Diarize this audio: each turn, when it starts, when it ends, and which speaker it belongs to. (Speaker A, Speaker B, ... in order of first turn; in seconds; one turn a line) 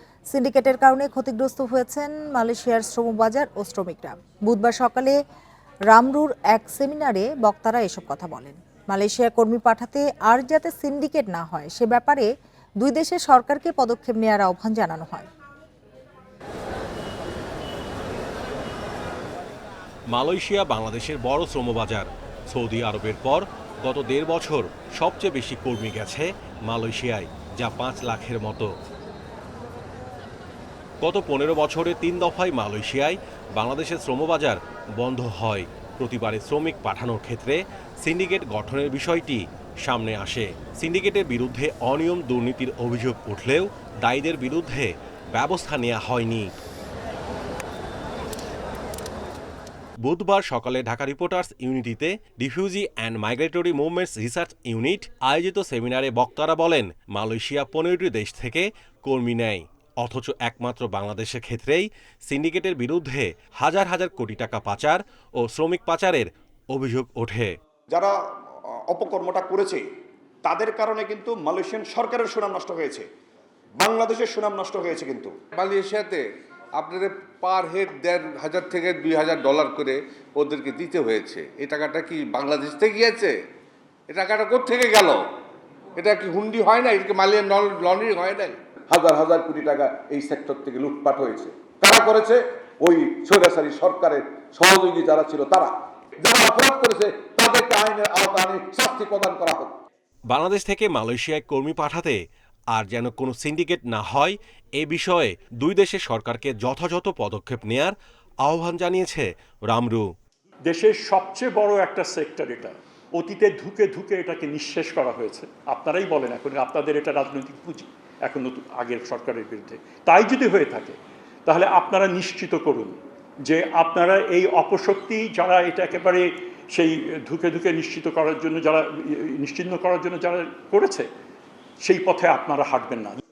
Speaker A: 0.3-5.2
Speaker A: 5.9-12.3
Speaker A: 12.8-15.3
Speaker B: 20.1-28.7
Speaker B: 31.0-46.5
Speaker B: 50.0-67.5
Speaker C: 68.7-69.8
Speaker C: 70.4-73.1
Speaker C: 73.8-75.3
Speaker D: 75.5-76.2
Speaker D: 76.8-83.4
Speaker D: 84.1-85.2
Speaker D: 86.0-88.6
Speaker E: 88.9-99.8
Speaker B: 100.3-102.2
Speaker B: 102.7-110.1
Speaker F: 110.7-131.1
Speaker F: 131.8-133.2